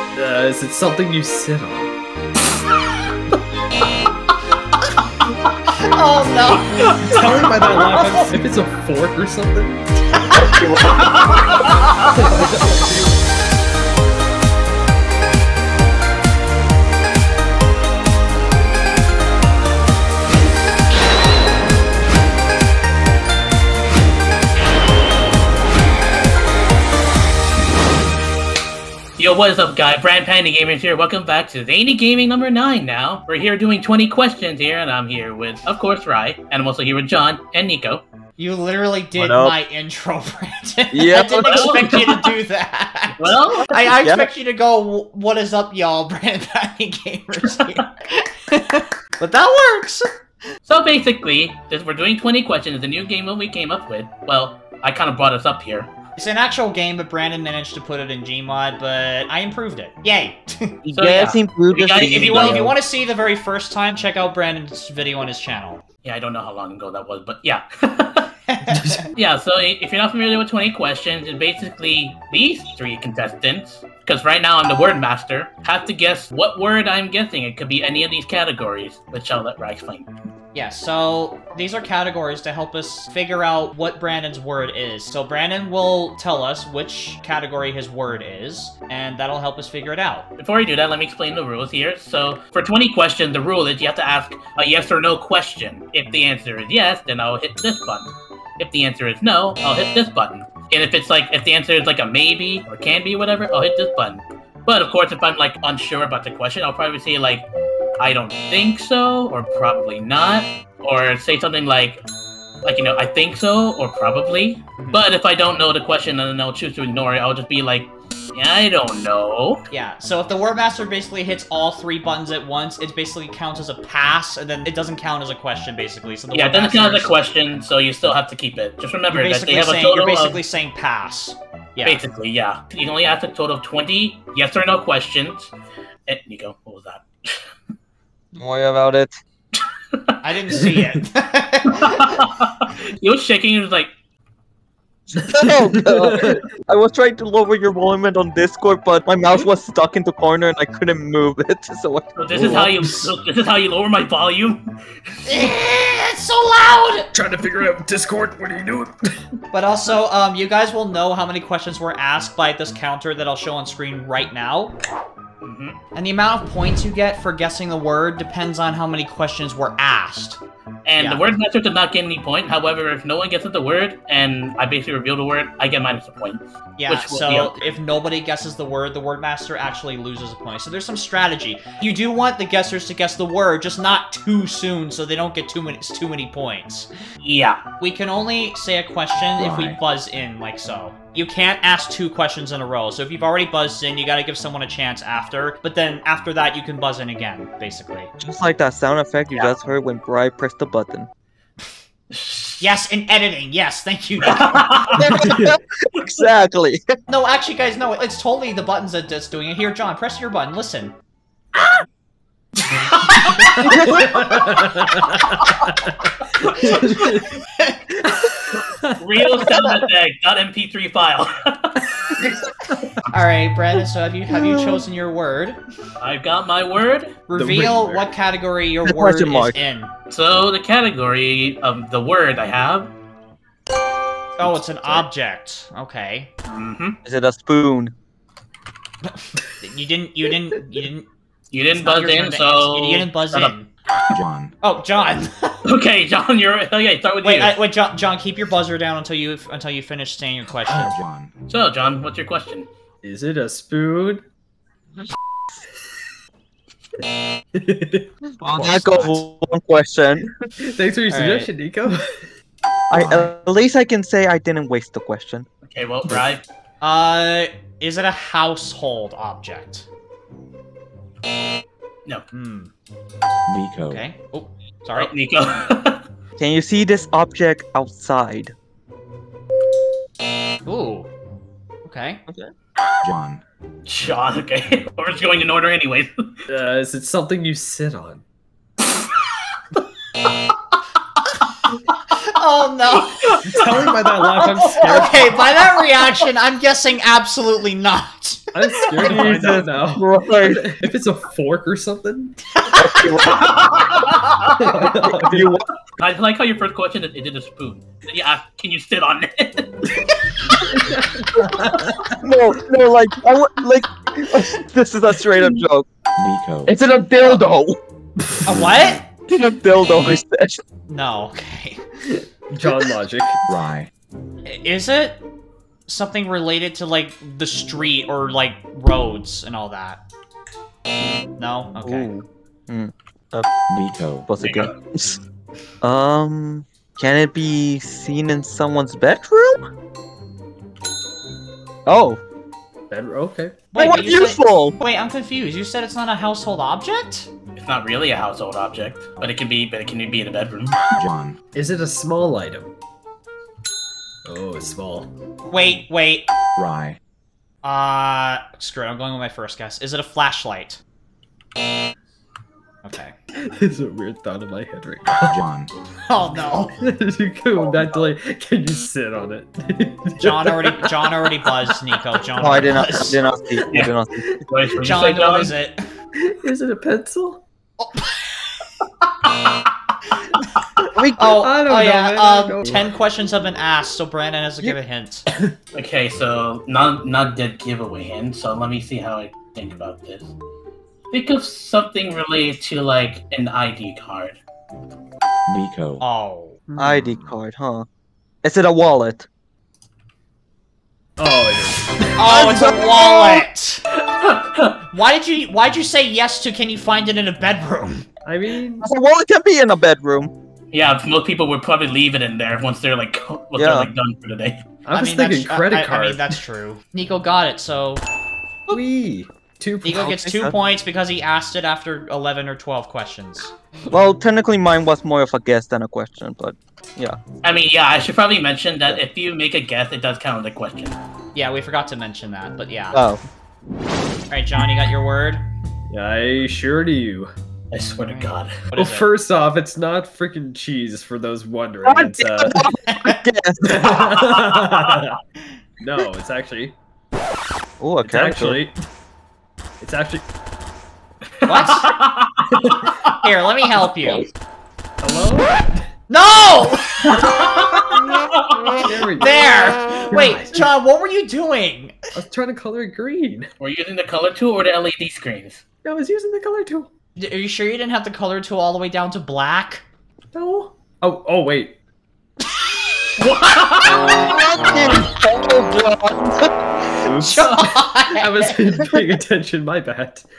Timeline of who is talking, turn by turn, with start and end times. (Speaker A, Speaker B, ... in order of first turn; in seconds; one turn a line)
Speaker A: 0.1-1.9
Speaker B: 5.7-8.3
Speaker A: 7.0-10.4
Speaker B: 10.2-10.6
Speaker C: 10.3-11.5
Speaker A: 12.1-13.1
Speaker D: 29.2-38.0
Speaker B: 38.4-50.1
Speaker C: 39.2-39.6
Speaker C: 40.9-42.1
Speaker D: 41.4-42.3
Speaker D: 43.2-43.8
Speaker C: 44.0-44.3
Speaker D: 50.7-55.9
Speaker B: 56.2-61.4
Speaker C: 60.9-62.8
Speaker D: 61.0-62.7
Speaker B: 62.0-65.8
Speaker D: 66.0-68.3
Speaker B: 68.5-69.1
Speaker A: 68.7-69.1
Speaker D: 69.2-80.1
Speaker B: 80.5-90.3
Speaker D: 90.4-107.5
Speaker D: 108.0-112.0
Speaker D: 112.6-119.7
Speaker B: 119.7-127.2
Speaker D: 126.3-130.4
Speaker B: 129.1-132.1
Speaker D: 131.8-135.5
Speaker D: 136.1-137.5
Speaker C: 138.4-139.2
Speaker D: 139.9-140.2
Speaker B: 140.2-142.2
Speaker A: 140.6-141.0
Speaker D: 141.7-143.9
Speaker C: 145.1-152.7
Speaker A: 145.3-146.4
Speaker D: 152.2-154.8
Speaker A: 152.4-153.1
Speaker B: 155.3-157.1
Speaker A: 157.1-159.1
Speaker B: 159.5-164.8
Speaker D: 165.4-165.8
Speaker B: 165.9-170.4
Speaker D: 170.9-177.8
Speaker B: 171.0-171.3
Speaker B: 176.8-186.9
Speaker D: 187.2-187.6
Speaker B: 187.8-198.1
Speaker E: 189.4-189.8
Speaker C: 198.2-201.1
Speaker B: 199.3-199.6
Speaker D: 202.1-202.6
Speaker B: 202.6-205.0
Speaker D: 204.2-205.0
Speaker C: 205.0-207.0
Speaker A: 205.1-205.6
Speaker B: 207.1-210.9
Speaker B: 212.6-214.0
Speaker A: 213.3-219.0
Speaker B: 216.6-217.8
Speaker D: 219.0-222.2
Speaker A: 222.7-223.0
Speaker B: 223.1-225.6
Speaker C: 224.3-224.8
Speaker D: 226.0-227.2
Speaker B: 227.3-229.9
Speaker A: 227.3-228.1
Speaker C: 228.8-229.6
Speaker D: 230.1-232.9
Speaker B: 234.4-236.3
Speaker D: 236.5-237.0
Speaker C: 237.1-237.9
Speaker B: 239.1-241.1
Speaker D: 241.5-243.5
Speaker B: 241.7-243.7
Speaker E: 244.1-244.6
Speaker B: 244.6-245.7
Speaker D: 245.7-247.6
Speaker B: 247.2-250.9
Speaker E: 250.7-251.3
Speaker D: 251.5-252.7
Speaker A: 253.0-254.2
Speaker A: 257.5-258.1
Speaker C: 258.4-260.3
Speaker B: 258.5-259.2
Speaker A: 260.6-262.3
Speaker B: 261.1-261.5
Speaker C: 262.9-265.5
Speaker E: 262.9-263.3
Speaker D: 265.7-266.4
Speaker B: 266.8-269.9
Speaker B: 272.3-272.7
Speaker E: 273.5-274.0
Speaker B: 273.9-275.1
Speaker D: 275.0-276.0
Speaker C: 276.4-278.5
Speaker B: 280.6-281.1
Speaker B: 281.9-282.2
Speaker E: 283.0-283.4
Speaker D: 283.9-286.3
Speaker A: 286.5-288.2
Speaker B: 292.1-293.6
Speaker A: 293.4-295.4
Speaker D: 293.5-293.8
Speaker B: 294.4-299.1
Speaker A: 298.5-302.6
Speaker C: 299.0-300.7
Speaker B: 302.6-303.0
Speaker C: 302.7-303.8
Speaker D: 303.4-303.9
Speaker A: 304.6-305.6
Speaker C: 304.9-305.7
Speaker D: 306.0-309.9
Speaker A: 310.7-312.2
Speaker C: 312.2-315.9
Speaker E: 316.2-316.7
Speaker C: 316.7-317.8
Speaker B: 318.4-319.0
Speaker C: 319.3-320.6
Speaker B: 320.9-322.0
Speaker A: 322.5-323.4
Speaker E: 323.5-323.9
Speaker B: 324.4-325.2
Speaker B: 325.9-330.0
Speaker B: 331.4-332.1
Speaker C: 331.8-333.5
Speaker E: 333.7-334.3
Speaker C: 334.3-335.2
Speaker D: 334.4-334.7
Speaker C: 335.8-339.7
Speaker C: 341.9-342.2
Speaker A: 342.9-343.7
Speaker B: 343.7-347.3
Speaker C: 343.8-344.8
Speaker D: 347.6-350.8
Speaker E: 350.9-351.4
Speaker A: 351.5-352.7
Speaker A: 354.2-355.1
Speaker B: 355.5-356.3
Speaker E: 356.6-357.0
Speaker B: 357.6-360.8
Speaker B: 362.8-363.1
Speaker A: 363.3-365.4
Speaker E: 365.3-365.7
Speaker B: 366.1-366.8
Speaker A: 366.8-371.8
Speaker B: 370.2-373.2
Speaker C: 372.4-374.3
Speaker A: 373.6-374.4
Speaker D: 374.5-375.5
Speaker B: 374.8-375.9
Speaker A: 376.2-377.4
Speaker B: 377.8-378.5
Speaker B: 380.3-385.3
Speaker A: 380.8-382.9
Speaker C: 380.9-381.3
Speaker A: 385.3-385.6
Speaker D: 385.7-390.3
Speaker D: 391.1-394.4
Speaker E: 395.5-396.0
Speaker B: 396.0-396.6
Speaker A: 396.7-397.3
Speaker C: 396.8-397.9
Speaker C: 398.4-399.3
Speaker A: 401.2-402.3
Speaker B: 402.2-403.8
Speaker C: 402.3-403.4
Speaker D: 404.0-404.8
Speaker B: 404.9-408.1
Speaker A: 408.2-408.9
Speaker C: 408.8-410.3
Speaker D: 410.7-414.7
Speaker C: 413.6-413.9
Speaker A: 414.9-416.4
Speaker B: 414.9-418.1
Speaker A: 418.7-420.1
Speaker B: 419.8-423.5
Speaker C: 419.9-420.6
Speaker C: 423.9-427.2
Speaker D: 427.4-431.0
Speaker B: 431.4-433.0
Speaker C: 432.9-433.2
Speaker B: 434.3-435.4
Speaker A: 435.9-437.3
Speaker D: 437.7-438.6
Speaker B: 438.1-439.1
Speaker A: 438.7-442.6
Speaker C: 441.9-444.3
Speaker B: 442.5-443.2
Speaker A: 443.8-445.2
Speaker D: 444.7-445.0
Speaker A: 445.8-446.8
Speaker C: 447.8-448.6
Speaker A: 448.0-448.8
Speaker A: 449.8-450.2
Speaker D: 451.4-453.2
Speaker B: 451.4-451.9
Speaker A: 452.5-452.9
Speaker B: 453.2-454.3
Speaker A: 455.0-455.8
Speaker B: 456.1-457.3
Speaker D: 457.1-458.7
Speaker A: 458.8-460.7
Speaker B: 459.1-462.0
Speaker A: 462.1-463.5
Speaker D: 463.6-465.6
Speaker A: 465.8-466.9
Speaker B: 467.2-469.8
Speaker A: 470.3-471.8
Speaker D: 473.2-474.3
Speaker C: 474.2-476.5
Speaker A: 477.0-480.3
Speaker B: 477.1-478.6